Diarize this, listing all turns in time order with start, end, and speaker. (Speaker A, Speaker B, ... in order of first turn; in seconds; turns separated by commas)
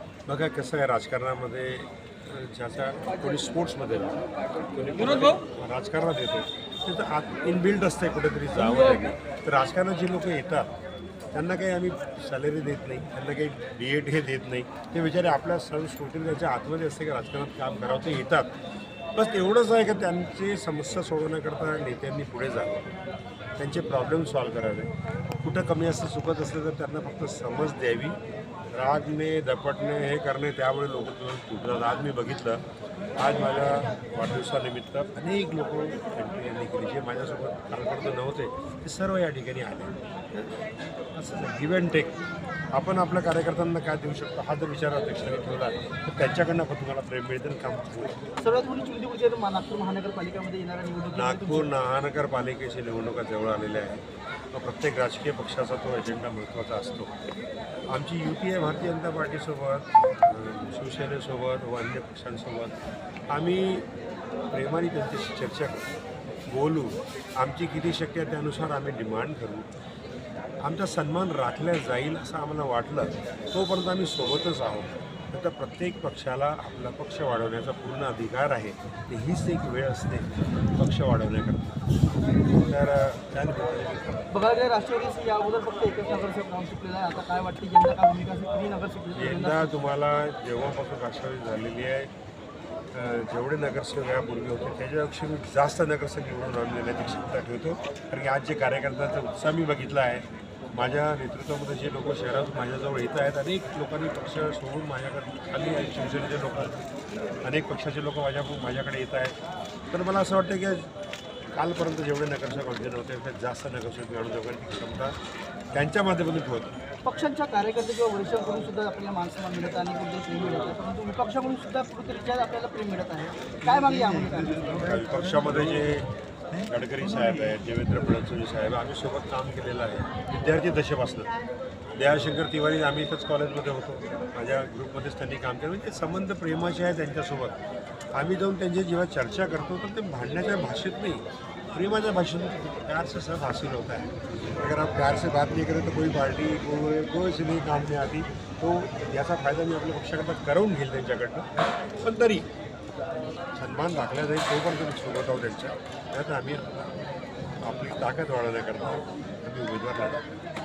Speaker A: 0.3-10.7, Speaker A: 11.3-18.5, Speaker A: 19.1-22.8, Speaker A: 23.6-28.2, Speaker A: 28.7-32.6, Speaker A: 33.2-40.5, Speaker A: 41.1-42.2, Speaker A: 42.7-48.2, Speaker B: 48.4-51.7, Speaker A: 51.1-57.1, Speaker A: 57.9-62.8, Speaker A: 63.3-63.9, Speaker A: 64.5-65.9, Speaker A: 66.5-69.7, Speaker A: 70.6-81.8, Speaker A: 82.5-84.2, Speaker B: 84.3-89.8, Speaker A: 89.1-92.1, Speaker A: 92.9-106.8, Speaker A: 107.4-109.4, Speaker A: 109.9-110.9, Speaker A: 111.5-115.2, Speaker A: 115.7-116.8, Speaker B: 117.0-124.7, Speaker A: 124.7-126.1, Speaker A: 126.6-131.3, Speaker A: 132.0-137.6, Speaker A: 138.1-152.5, Speaker A: 153.6-156.9, Speaker A: 157.6-160.2